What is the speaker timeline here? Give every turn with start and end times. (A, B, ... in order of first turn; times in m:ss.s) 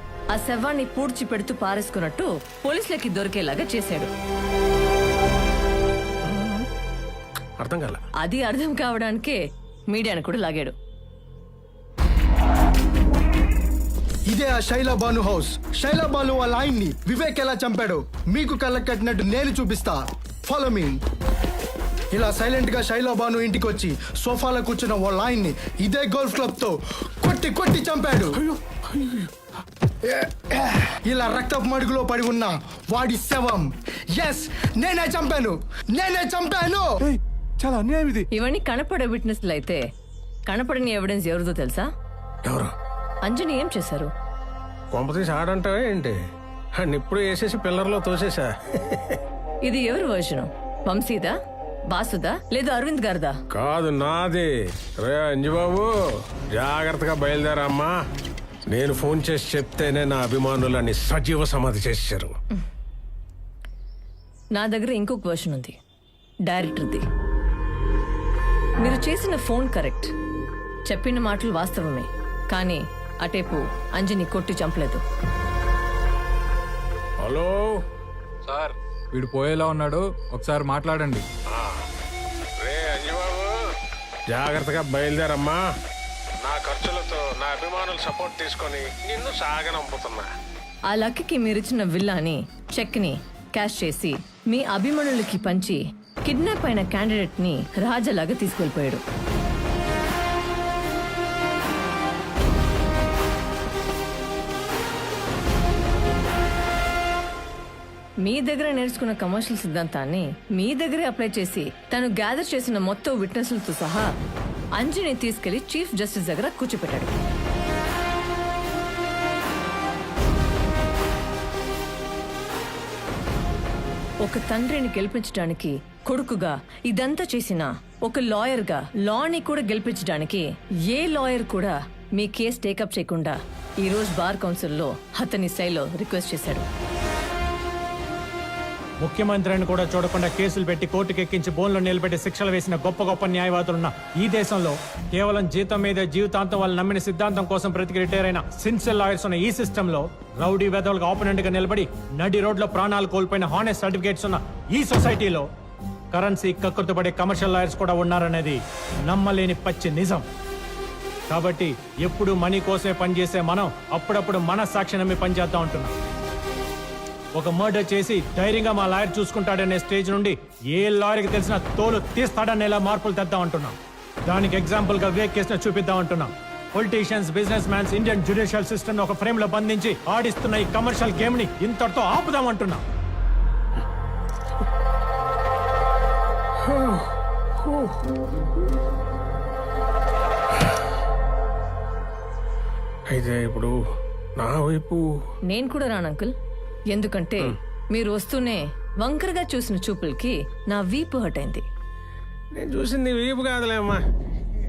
0:00.3-0:04.1 A
0:06.3-0:06.6 B
0:07.6-0:08.0 B
0:08.2-0:10.7 A
0:14.3-0:21.0 C
0:22.1-0:28.4 C
0:30.0-0:36.9 C
0:37.6-0:38.2 C
0:38.3-0:39.8 A
0:40.5-0:41.9 A
0:42.5-0:42.7 B
0:43.2-0:44.1 A
0:44.9-0:46.2 B
0:46.8-0:49.2 B
0:49.6-0:51.3 A
0:51.9-0:53.3 A
0:53.5-0:54.5 B
0:55.0-0:57.9 B
0:58.7-1:02.3 B
1:04.6-1:05.7 A
1:06.4-1:07.0 A
1:08.8-1:10.1 A
1:10.9-1:15.0 A
1:17.2-1:17.8 B
1:19.1-1:21.2 D
1:21.5-1:21.8 B
1:22.6-1:23.5 B
1:24.3-1:25.6 B
1:26.4-1:30.3 B
1:30.9-1:39.0 A
1:48.2-1:54.1 A
1:54.8-1:57.1 A
2:04.2-2:16.7 A
2:19.0-2:35.5 E
2:36.1-2:40.2 E
2:41.3-2:45.9 E
2:47.3-3:02.8 E
3:13.1-3:13.8 B
3:14.4-3:15.1 B
3:15.5-3:16.3 A
3:16.9-3:21.6 A
3:22.6-3:24.0 B